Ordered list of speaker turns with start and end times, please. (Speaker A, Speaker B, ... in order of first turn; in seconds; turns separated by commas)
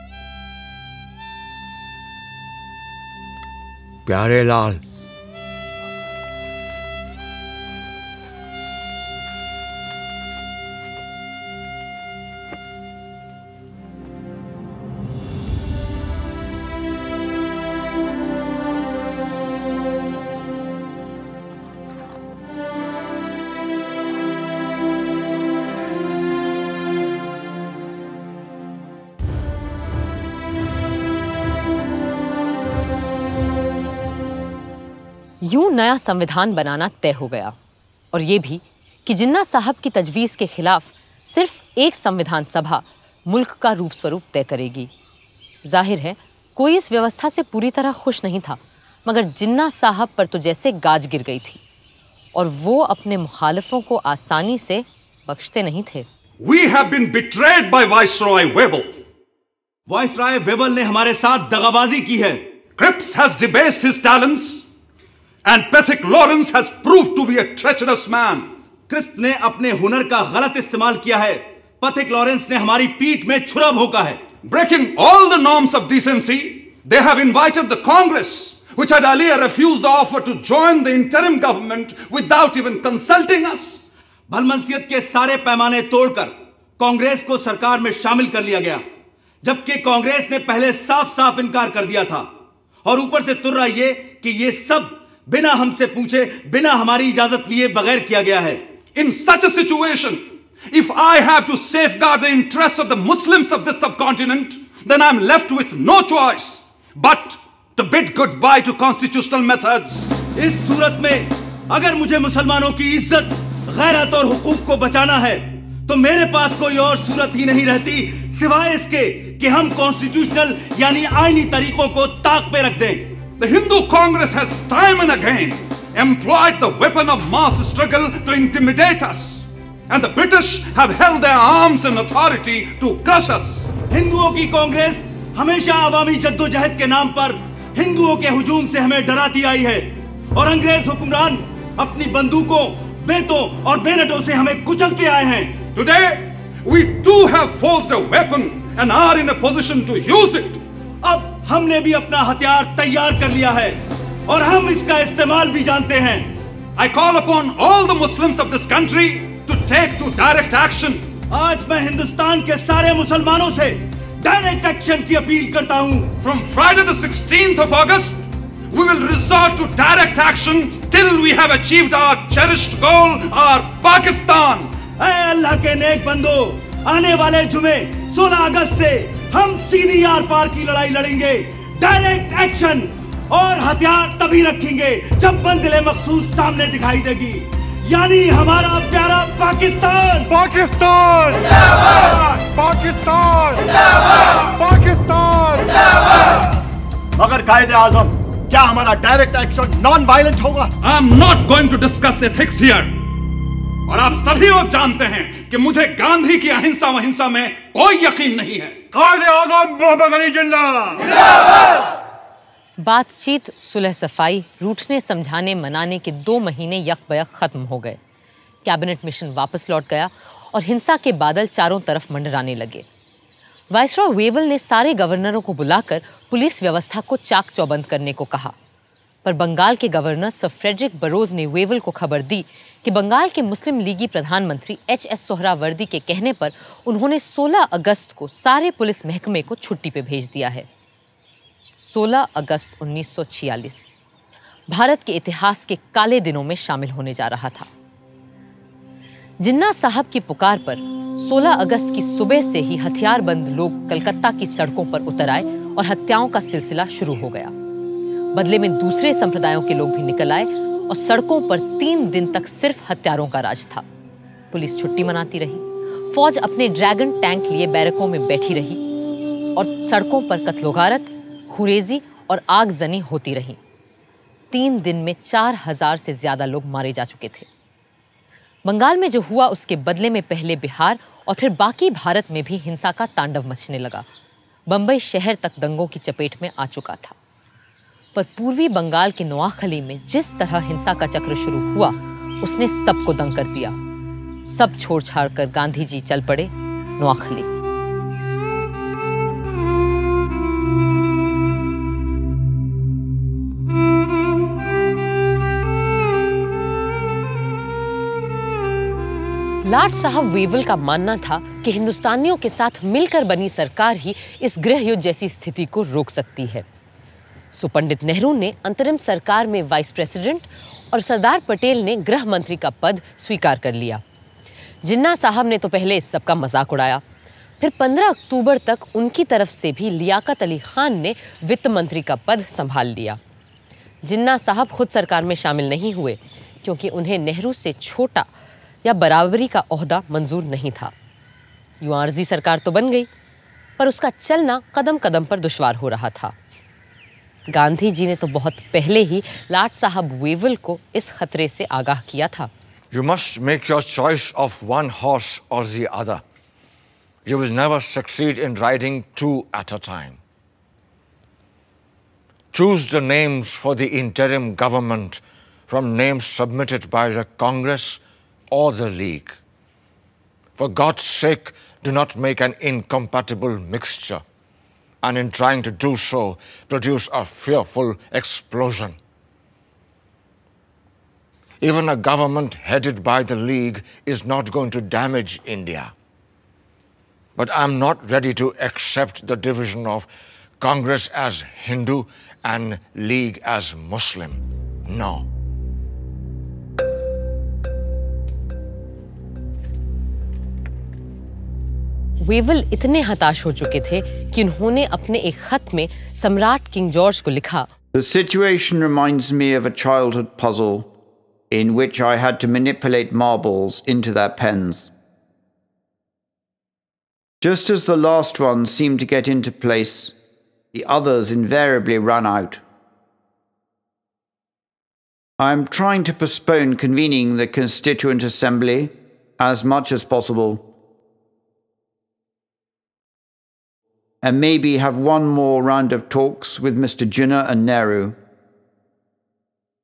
Speaker A: 4.0-4.8, Speaker B: 35.4-37.5, Speaker B: 38.1-44.9, Speaker B: 45.6-51.6, Speaker B: 52.3-56.1, Speaker C: 56.4-58.9, Speaker D: 59.9-62.4, Speaker C: 62.8-64.6, Speaker C: 65.5-68.5, Speaker D: 68.9-74.2, Speaker C: 74.4-83.8, Speaker D: 84.3-88.8, Speaker D: 89.4-92.3, Speaker D: 92.8-98.6, Speaker C: 98.9-110.1, Speaker D: 110.3-123.1, Speaker C: 123.4-133.7, Speaker D: 133.9-145.6, Speaker C: 145.7-150.6, Speaker D: 151.0-156.3, Speaker C: 156.8-161.1, Speaker D: 161.3-166.1, Speaker C: 166.2-168.2, Speaker C: 168.7-174.7, Speaker D: 175.0-190.3, Speaker E: 190.3-193.7, Speaker E: 194.5-195.7, Speaker F: 197.2-200.7, Speaker C: 200.8-202.9, Speaker C: 203.9-208.8, Speaker E: 208.9-211.1, Speaker B: 212.8-218.0, Speaker B: 218.6-222.8, Speaker B: 223.7-228.5, Speaker B: 229.2-240.7, Speaker B: 241.8-243.9, Speaker B: 244.7-247.7, Speaker B: 249.4-257.5, Speaker B: 258.3-263.8, Speaker B: 264.5-268.8, Speaker B: 269.5-273.6, Speaker B: 274.5-277.5, Speaker B: 278.6-284.1, Speaker B: 284.7-287.1, Speaker B: 288.1-293.8, Speaker B: 294.5-297.5, Speaker B: 309.6-316.6, Speaker B: 317.5-324.0, Speaker B: 324.8-327.0, Speaker B: 327.6-333.2, Speaker B: 334.0-338.3, Speaker B: 338.8-340.9, Speaker B: 341.8-343.1, Speaker B: 343.8-346.3, Speaker B: 347.5-352.5, Speaker A: 352.9-356.2, Speaker A: 357.2-360.2, Speaker A: 362.5-369.4, Speaker A: 370.6-374.2, Speaker A: 375.0-379.0, Speaker A: 381.6-385.9, Speaker A: 387.4-395.3, Speaker B: 402.2-407.7, Speaker G: 407.9-410.9, Speaker G: 411.5-414.9, Speaker G: 417.4-420.1, Speaker G: 420.7-422.6, Speaker G: 425.4-430.6, Speaker G: 434.2-438.2